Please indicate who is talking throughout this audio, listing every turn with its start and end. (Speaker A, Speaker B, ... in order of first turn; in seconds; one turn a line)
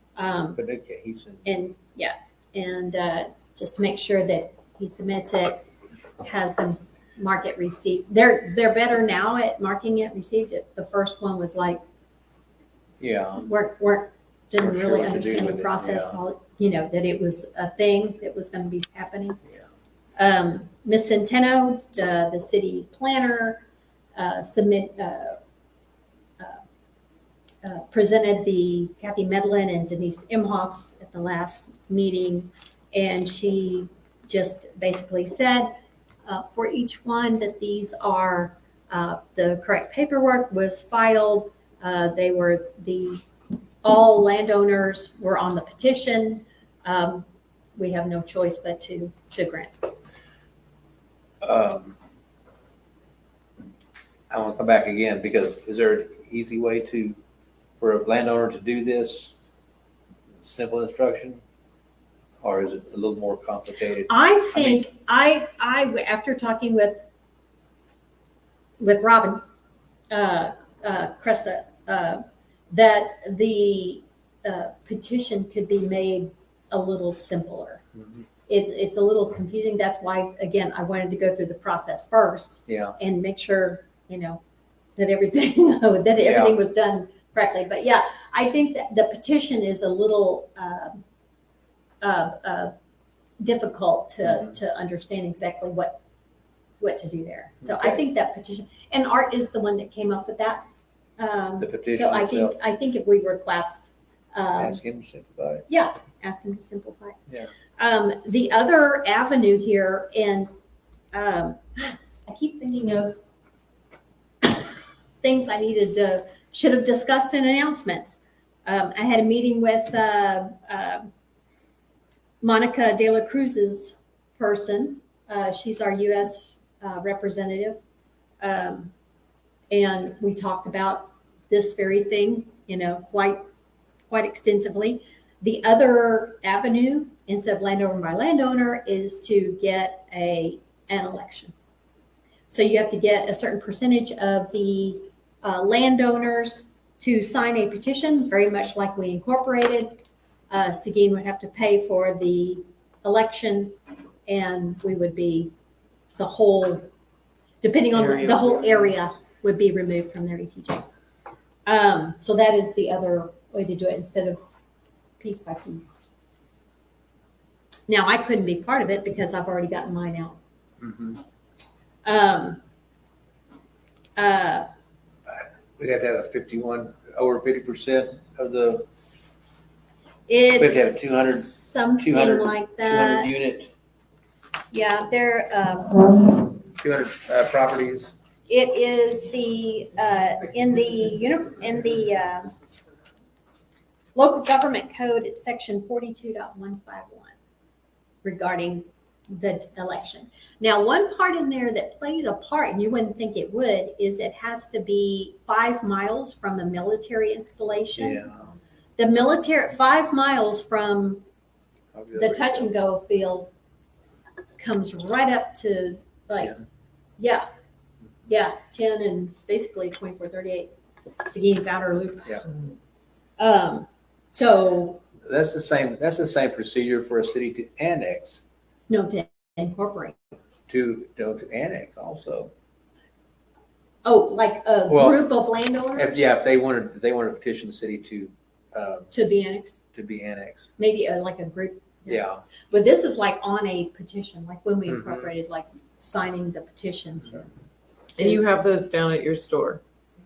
Speaker A: 0.2-0.6
Speaker B: 0.6-1.5
Speaker A: 1.4-5.7
Speaker A: 6.2-11.8
Speaker B: 13.0-13.5
Speaker A: 13.3-19.4
Speaker B: 14.6-16.2
Speaker A: 20.2-23.6
Speaker A: 24.2-25.4
Speaker A: 27.6-43.2
Speaker A: 43.8-49.7
Speaker B: 51.4-52.0
Speaker B: 54.3-57.2
Speaker B: 57.8-59.3
Speaker B: 60.4-61.4
Speaker B: 62.4-64.8
Speaker A: 64.1-67.0
Speaker A: 68.8-69.4
Speaker A: 70.1-77.8
Speaker A: 78.5-84.4
Speaker B: 82.7-83.0
Speaker A: 85.0-91.0
Speaker B: 86.2-86.6
Speaker A: 92.0-92.7
Speaker A: 93.4-96.0
Speaker A: 96.8-100.7
Speaker B: 97.6-98.0
Speaker A: 101.2-104.8
Speaker B: 101.6-102.6
Speaker B: 104.6-105.7
Speaker A: 105.7-107.2
Speaker A: 107.8-110.5
Speaker A: 111.1-113.2
Speaker A: 114.4-121.1
Speaker A: 122.4-127.8
Speaker A: 128.4-128.9
Speaker A: 129.7-133.4
Speaker A: 134.1-141.5
Speaker A: 142.5-155.5
Speaker A: 156.2-156.9
Speaker A: 157.6-160.9
Speaker C: 157.9-158.8
Speaker A: 161.7-164.5
Speaker A: 165.2-166.0
Speaker A: 167.9-170.4
Speaker B: 170.8-171.2
Speaker A: 172.1-172.6
Speaker A: 174.2-174.7
Speaker B: 175.3-178.9
Speaker A: 180.3-183.4
Speaker B: 180.6-183.7
Speaker A: 184.7-186.5
Speaker B: 186.8-188.2
Speaker A: 188.5-192.5
Speaker A: 194.2-197.3
Speaker A: 198.2-208.3
Speaker B: 208.0-208.4
Speaker A: 209.0-211.2
Speaker B: 211.9-212.7
Speaker A: 212.2-213.5
Speaker A: 214.6-216.6
Speaker A: 217.2-217.4
Speaker A: 218.3-220.7
Speaker A: 221.2-222.5
Speaker A: 223.4-225.0
Speaker B: 225.3-228.4
Speaker A: 228.9-230.2
Speaker B: 230.7-232.5
Speaker A: 234.1-236.3
Speaker B: 234.9-235.2
Speaker B: 235.9-239.1
Speaker A: 239.1-239.8
Speaker B: 239.9-240.7
Speaker A: 240.8-247.5
Speaker B: 242.1-242.4
Speaker B: 244.9-245.2
Speaker C: 248.2-249.8